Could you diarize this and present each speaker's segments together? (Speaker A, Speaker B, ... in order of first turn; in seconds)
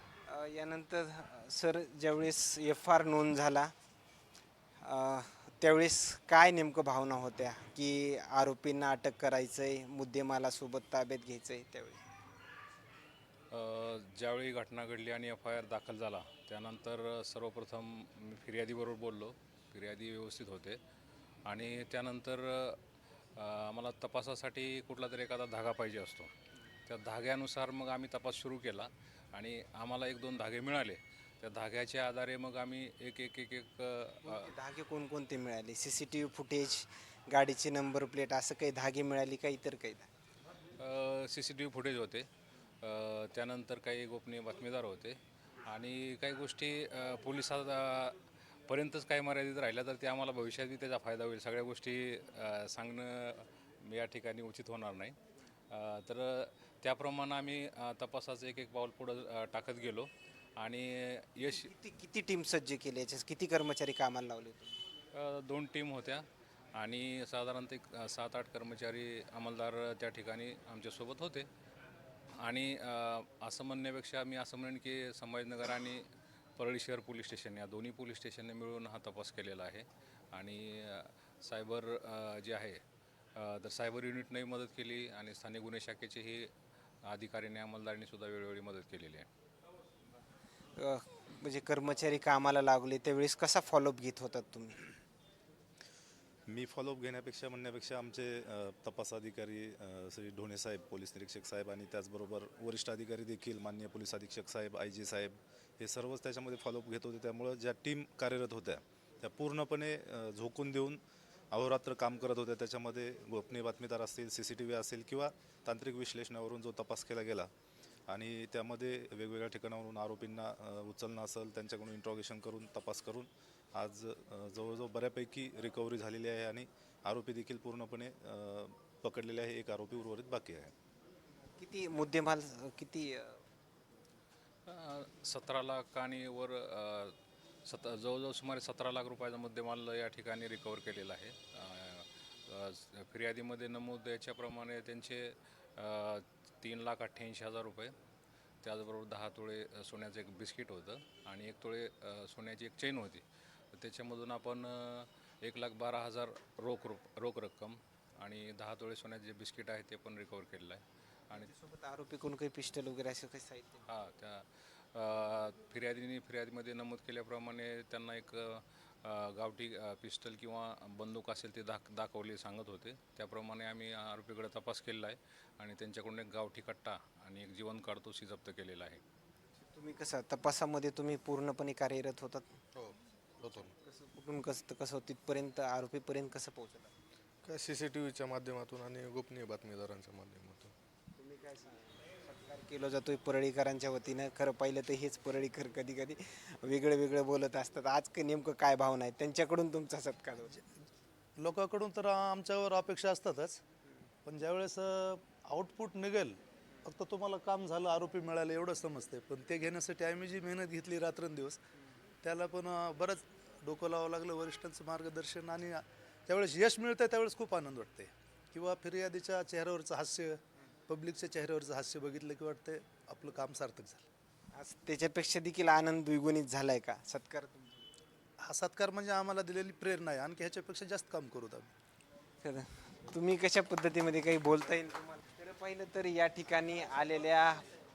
Speaker A: 0.3-3.7, 4.8-12.0, 34.2-40.1, 61.5-64.7, 90.8-94.9, 131.6-133.4, 161.3-163.8, 179.6-182.5, 183.8-186.9, 191.2-200.5, 224.6-227.9, 232.4-237.6
Speaker B: 13.5-20.8, 21.5-22.8, 23.4-26.3, 26.9-34.5, 40.8-42.3, 42.8-48.1, 48.7-55.2, 55.7-61.7, 65.1-71.5, 72.4-76.1, 76.6-82.8, 83.4-86.5, 87.1-89.3, 134.7-137.2, 137.7-147.9, 148.6-153.2, 153.8-161.5, 163.9-179.0
Speaker C: 96.5-111.0, 111.5-117.5, 118.1-130.7
Speaker D: 182.7-183.7, 187.4-190.7
Speaker E: 201.4-203.6, 204.3-211.6, 212.2-224.1, 228.4-231.7